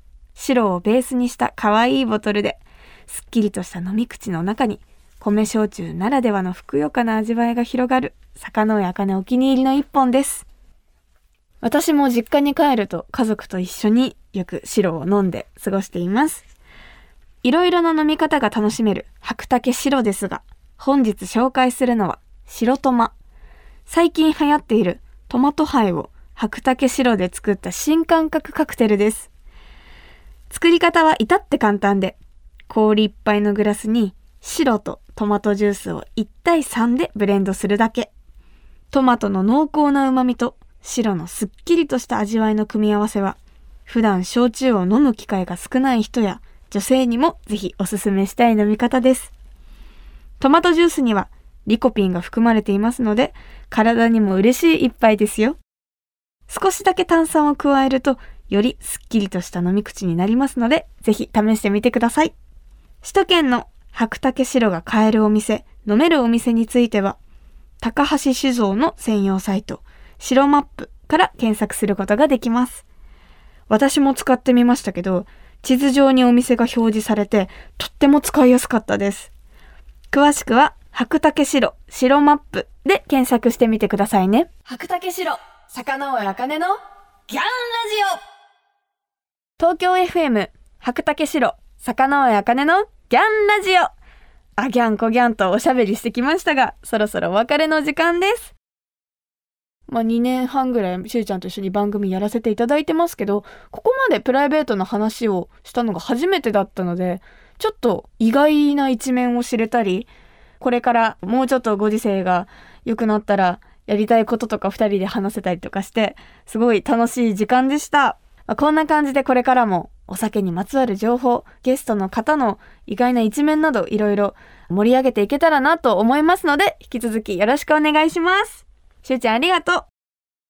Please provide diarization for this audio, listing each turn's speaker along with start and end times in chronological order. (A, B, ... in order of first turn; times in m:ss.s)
0:00.4-0:10.4 A
0:11.6-0:16.4 A
0:17.4-0:23.1 A
0:23.9-0:29.3 A
0:30.5-0:32.2 A
0:32.7-0:38.1 A
0:38.9-0:49.3 A
0:50.4-0:55.6 A
0:56.5-1:02.3 A
1:03.0-1:07.2 A
1:07.8-1:12.8 A
1:13.7-1:19.3 A
1:20.1-1:28.2 A
1:29.6-1:33.9 A
1:34.6-1:38.5 A
1:39.9-1:50.1 A
1:50.6-2:09.9 A